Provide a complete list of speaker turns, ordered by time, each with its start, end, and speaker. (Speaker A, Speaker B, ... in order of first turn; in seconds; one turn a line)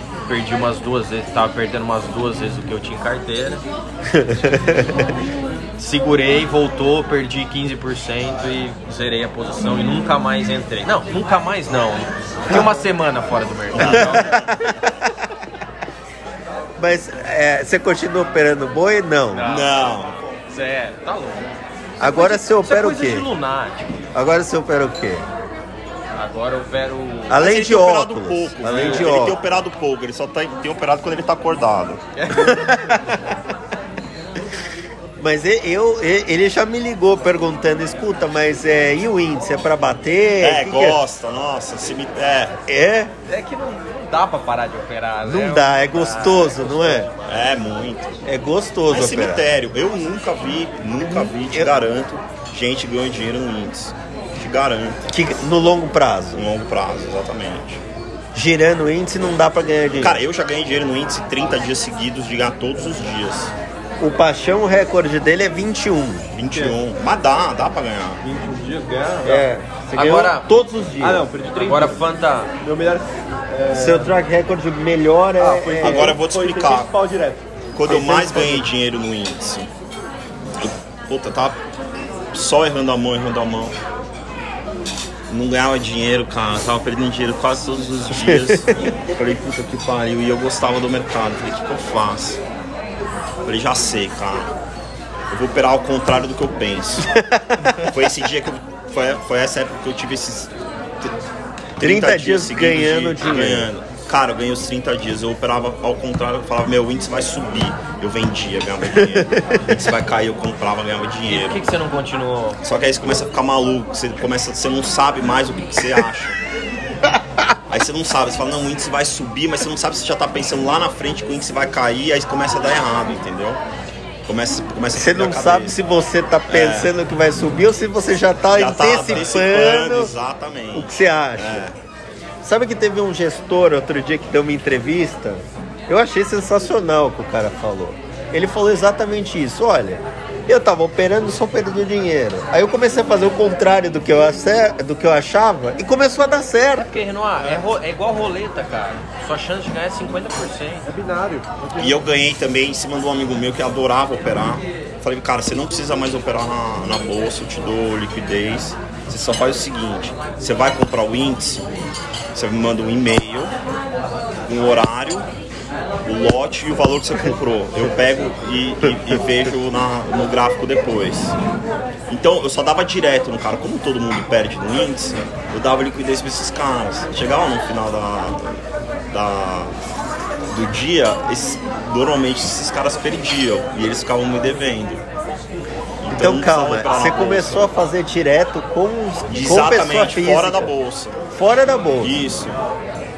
Speaker A: 0.3-3.6
Speaker B: 4.1-5.1
Speaker A: 5.8-14.4
Speaker C: 13.7-14.5
Speaker B: 13.8-15.0
Speaker B: 16.8-19.5
Speaker A: 19.3-20.0
Speaker C: 19.5-20.2
Speaker A: 20.5-24.0
Speaker B: 22.0-23.3
Speaker B: 24.1-25.3
Speaker A: 26.1-27.5
Speaker B: 27.3-29.4
Speaker C: 27.4-32.0
Speaker A: 28.6-29.3
Speaker A: 32.2-32.8
Speaker B: 32.3-33.4
Speaker B: 35.2-41.0
Speaker C: 40.4-42.6
Speaker B: 42.7-43.1
Speaker A: 43.3-47.3
Speaker B: 45.2-47.1
Speaker C: 47.3-48.2
Speaker B: 48.2-49.5
Speaker C: 48.9-55.0
Speaker B: 55.1-56.5
Speaker C: 56.4-57.8
Speaker B: 58.3-60.2
Speaker C: 60.0-63.5
Speaker B: 64.0-66.3
Speaker C: 66.3-68.2
Speaker D: 66.5-66.8
Speaker D: 68.2-69.5
Speaker B: 69.2-71.3
Speaker A: 69.9-70.5
Speaker D: 71.0-72.0
Speaker A: 71.5-72.5
Speaker D: 72.6-74.2
Speaker B: 73.7-76.2
Speaker D: 75.4-78.7
Speaker C: 75.8-76.9
Speaker C: 77.8-79.7
Speaker C: 80.6-81.6
Speaker C: 82.3-83.8
Speaker C: 85.3-92.4
Speaker B: 88.1-88.9
Speaker C: 93.5-94.5
Speaker C: 95.3-97.1
Speaker B: 97.1-97.9
Speaker C: 97.8-101.1
Speaker C: 101.8-111.6
Speaker B: 101.8-103.7
Speaker B: 108.9-109.8
Speaker A: 111.3-112.6
Speaker C: 112.6-116.4
Speaker B: 117.1-117.5
Speaker C: 117.7-123.6
Speaker C: 124.3-125.8
Speaker B: 124.9-130.1
Speaker C: 126.5-126.9
Speaker C: 128.5-131.8
Speaker B: 130.7-131.7
Speaker B: 132.4-146.9
Speaker A: 146.8-150.9
Speaker D: 150.9-152.0
Speaker C: 151.8-161.7
Speaker C: 162.3-163.5
Speaker C: 164.5-165.3
Speaker C: 166.1-171.4
Speaker C: 172.1-179.8
Speaker C: 180.5-185.0
Speaker C: 186.0-187.8
Speaker B: 186.1-190.7
Speaker C: 189.3-191.3
Speaker B: 191.3-192.2
Speaker C: 192.0-192.6